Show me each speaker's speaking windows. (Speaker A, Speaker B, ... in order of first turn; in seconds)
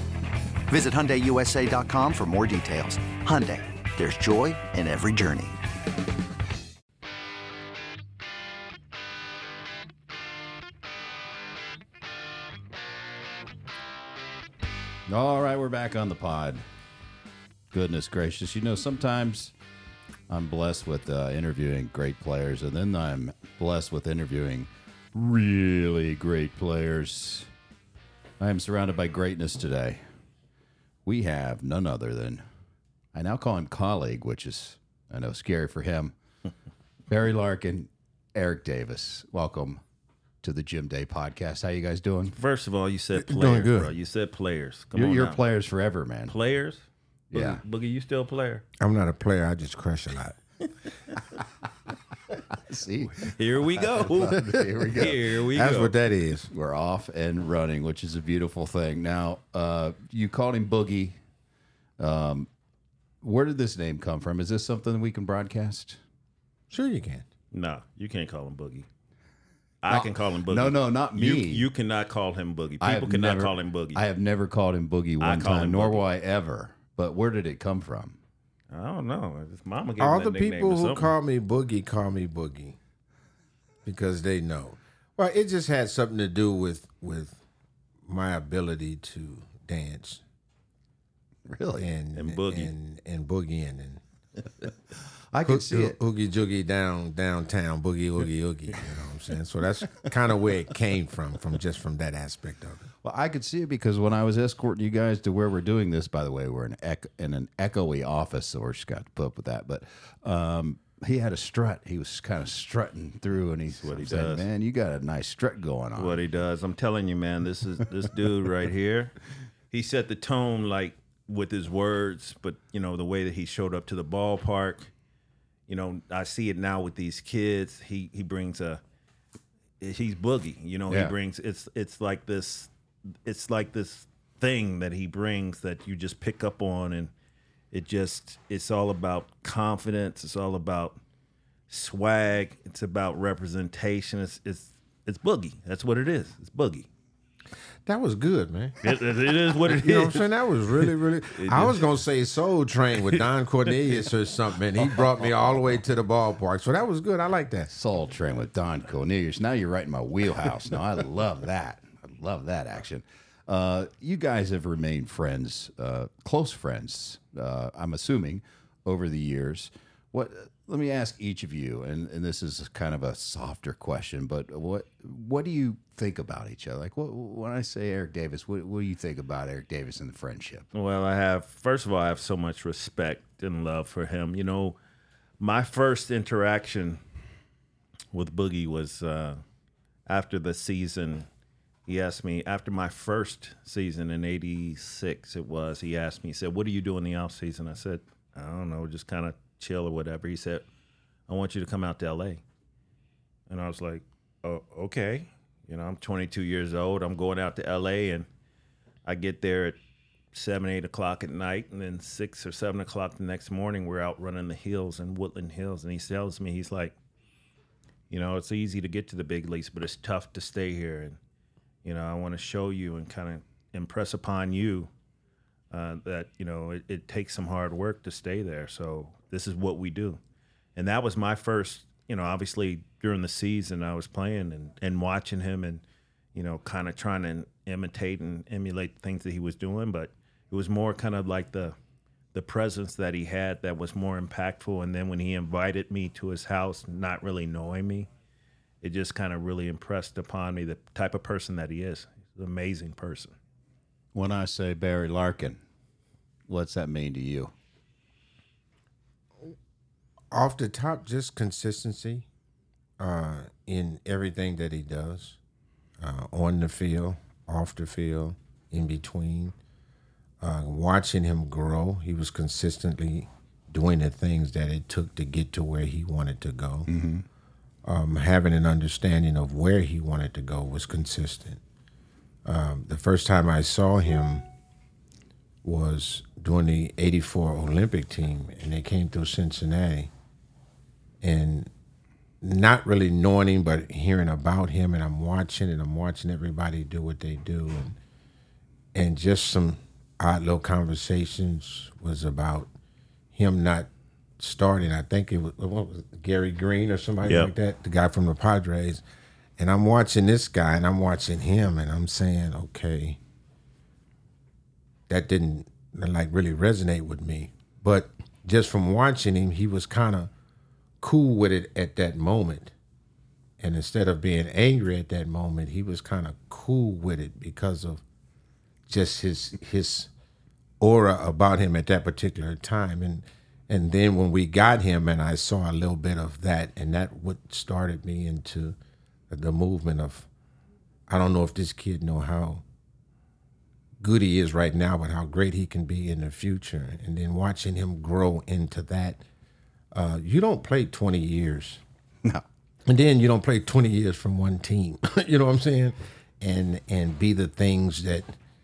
Speaker A: 0.7-5.6
Speaker B: 15.1-16.6, 17.7-19.5, 20.3-27.5, 28.4-30.0, 31.0-32.4, 33.1-36.1, 37.1-39.8, 40.4-42.3, 44.9-46.3, 47.3-47.6, 52.5-55.2, 56.5-61.2, 62.0-62.5, 63.2-66.0, 69.9-71.7, 72.8-78.2, 91.5-91.9, 95.3-96.0, 103.0-116.2, 130.9-131.1, 155.2-155.6, 157.7-180.7, 254.1-255.6, 256.5-257.5, 276.9-277.2
Speaker C: 42.3-45.4, 46.3-48.6, 53.3-54.4, 54.9-55.9, 67.5-68.9, 69.8-74.0, 75.2-76.0, 78.7-81.1, 92.1-92.7, 113.7-114.5, 116.0-119.1, 119.7-124.9, 125.7-128.8, 129.8-132.7, 133.2-137.1, 137.7-141.0, 141.7-146.9, 148.8-150.2, 151.3-151.8, 180.7-184.8, 185.4-187.0, 188.1-189.4, 190.1-191.3, 191.9-200.6, 201.3-202.4, 203.5-208.3, 209.1-209.8, 210.3-216.9, 218.1-221.2, 221.8-224.9, 225.7-230.2, 230.8-235.8, 236.3-241.8, 242.3-248.1, 248.8-253.3, 307.2-307.5
Speaker D: 43.1-43.9, 48.8-50.4, 55.5-56.5, 66.7-67.2, 80.0-82.8, 83.8-87.4, 88.0-90.2, 91.8-94.0, 95.4-102.8, 147.8-148.8, 149.7-157.7, 260.3-262.2, 263.0-265.4, 266.0-269.5, 270.4-276.9, 277.8-281.6, 282.4-284.4, 285.6-290.1, 291.2-291.7, 292.4-298.0, 298.9-302.7, 303.3-303.9, 304.4-309.0, 309.6-313.2, 315.1-320.3, 321.0-322.7, 323.6-328.0, 328.9-330.1, 330.8-338.7, 339.3-340.3, 341.1-342.6, 344.0-349.2, 349.9-351.8, 352.9-358.3